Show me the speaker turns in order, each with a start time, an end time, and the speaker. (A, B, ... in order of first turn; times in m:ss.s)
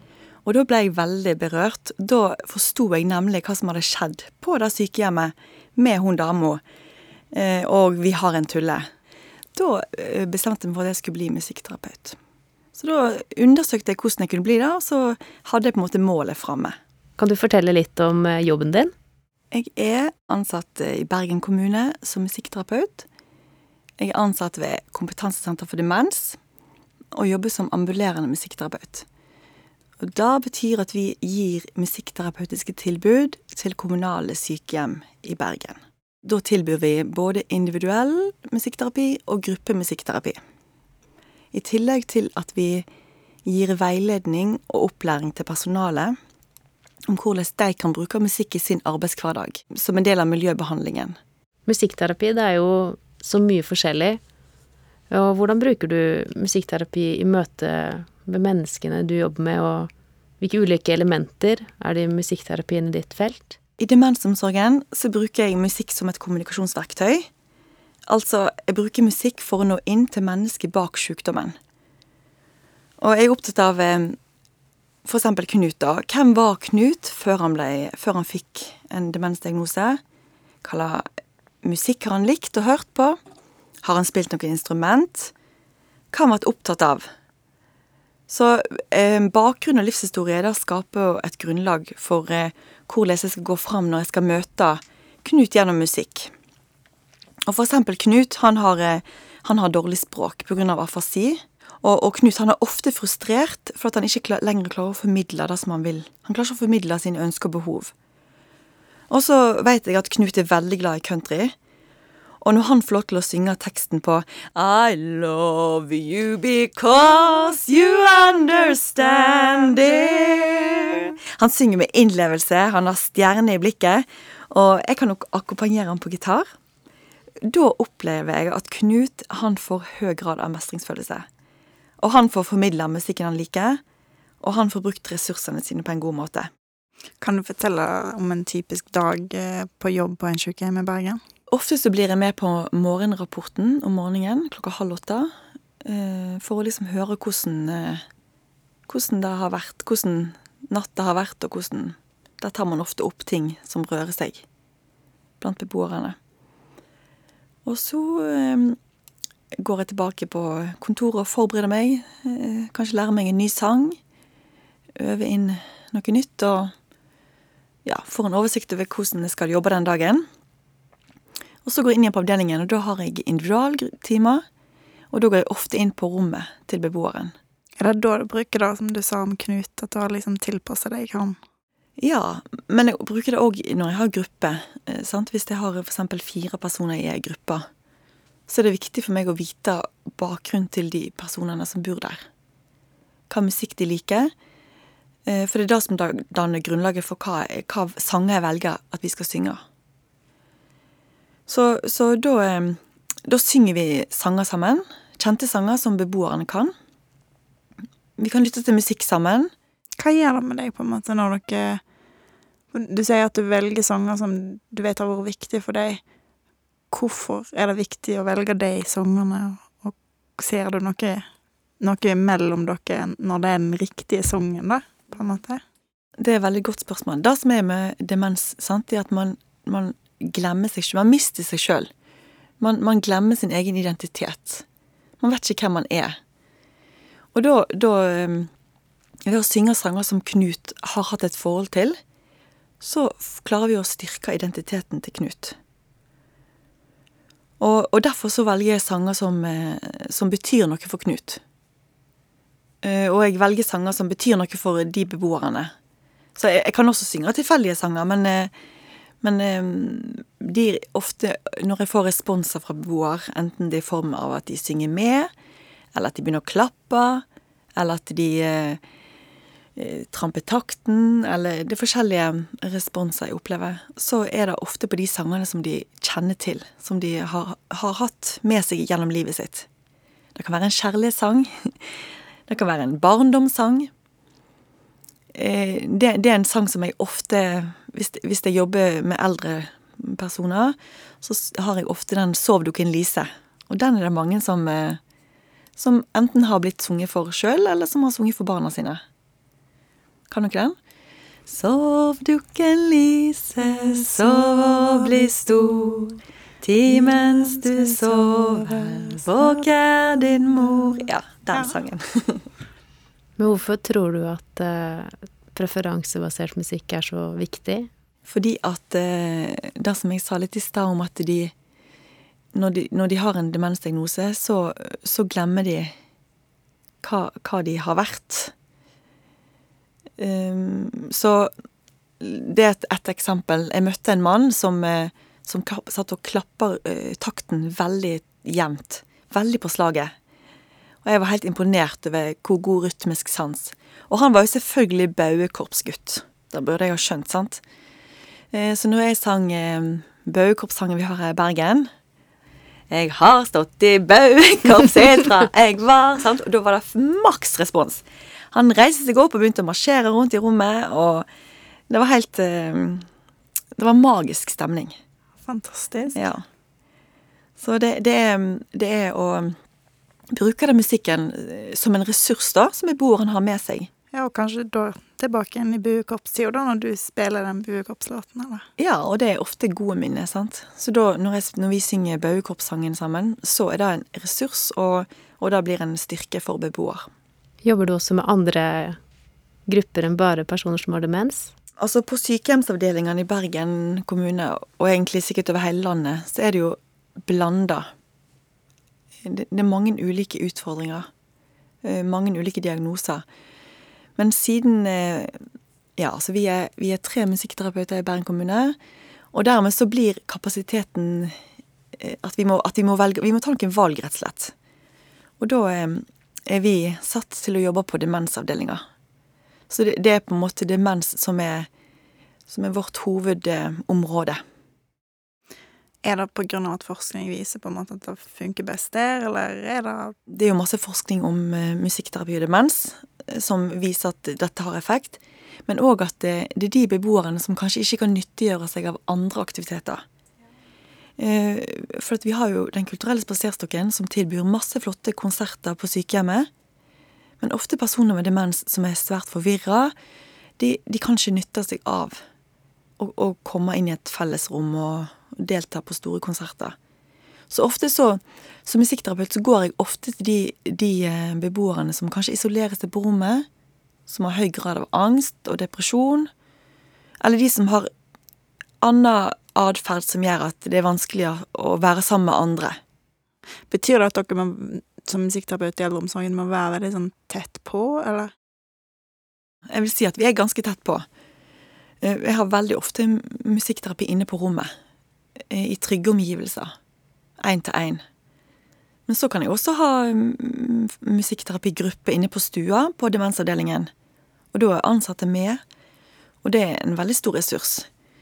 0:00.4-0:06.6 A
0:07.3-0:08.9 A
0:09.6-0:12.2 A
0:12.8-0:16.8 A
0:17.2-0:18.9 B
0:19.5-0:23.1 A
0:24.0-0:26.4 A
0:27.1-0:29.1 A
0:30.0-0:40.4 A
0:41.5-0:42.9 A
0:43.4-0:46.2 A
0:47.1-0:51.2 A
0:51.7-0:54.2 B
0:55.1-0:59.9 B
1:00.4-1:03.6 B
1:03.8-1:07.3 A
1:08.1-1:11.6 A
1:13.0-1:14.2 A
1:15.0-1:20.0 A
1:20.6-1:21.1 A
1:21.6-1:23.2 A
1:23.8-1:25.3 A
1:26.1-1:27.1 A
1:28.3-1:36.3 A
1:37.5-1:47.9 A
1:49.1-1:51.6 A
1:52.4-2:06.5 A
2:07.4-2:11.3 A
2:12.0-2:13.8 A
2:14.4-2:16.5 A
2:17.2-2:21.2 C
2:21.5-2:25.3 A
2:25.8-2:28.0 A
2:28.9-2:34.4 A
2:35.4-2:36.2 A
2:37.6-2:38.8 A
2:39.6-2:44.0 A
2:45.0-2:46.7 A
2:47.8-2:50.3 A
2:51.6-2:54.4 A
2:55.1-2:57.4 A
2:57.8-3:01.4 C
3:02.0-3:07.6 A
3:08.5-3:12.2 A
3:13.3-3:14.3 A
3:15.3-3:19.6 A
3:21.5-3:26.7 A
3:28.2-3:29.5 A
3:30.0-3:31.8 C
3:32.7-3:36.0 C
3:36.9-3:41.3 C
3:41.8-3:45.6 C
3:46.2-3:51.9 A
3:52.6-3:54.6 A
3:55.2-3:56.2 A
3:57.3-3:58.5 A
3:59.3-4:02.0 A
4:02.8-4:05.6 A
4:07.6-4:11.4 A
4:12.8-4:15.7 A
4:16.4-4:18.5 A
4:19.2-4:25.3 A
4:25.9-4:27.2 A
4:27.8-4:28.8 A
4:29.8-4:39.7 A
4:40.4-4:41.9 A
4:42.5-4:43.9 A
4:45.3-4:55.0 A
4:55.8-4:59.0 A
5:00.3-5:00.8 A
5:01.5-5:12.5 A
5:13.4-5:17.9 B
5:18.3-5:21.5 A
5:22.5-5:25.9 A
5:27.0-5:28.5 A
5:30.2-5:31.5 A
5:32.2-5:40.1 A
5:41.0-5:47.6 A
5:48.5-5:51.9 A
5:52.9-6:01.3 A
6:01.9-6:03.1 A
6:03.8-6:05.0 A
6:05.4-6:06.2 C
6:06.2-6:06.4 A
6:07.6-6:09.6 A
6:10.3-6:13.9 A
6:14.1-6:18.7 C
6:18.8-6:27.1 A
6:27.6-6:29.0 B
6:29.7-6:31.5 B
6:31.8-6:37.9 A
6:39.2-6:41.1 A
6:41.8-6:43.2 A
6:44.2-6:45.4 A
6:46.0-6:48.8 A
6:49.3-6:51.4 A
6:52.0-6:54.5 A
6:55.4-6:58.8 A
6:59.7-7:01.7 A
7:02.5-7:04.4 A
7:06.0-7:10.2 C
7:10.3-7:20.0 A
7:21.2-7:26.5 A
7:27.4-7:29.9 A
7:30.6-7:32.2 A
7:33.0-7:36.8 A
7:37.5-7:43.5 A
7:44.1-7:46.3 A
7:47.2-7:47.9 A
7:48.8-7:52.8 A
7:53.7-7:58.3 C
7:59.7-8:01.1 A
8:02.0-8:04.7 A
8:05.5-8:06.7 A
8:07.4-8:08.0 A
8:09.1-8:13.9 A
8:14.5-8:15.6 A
8:16.4-8:17.9 A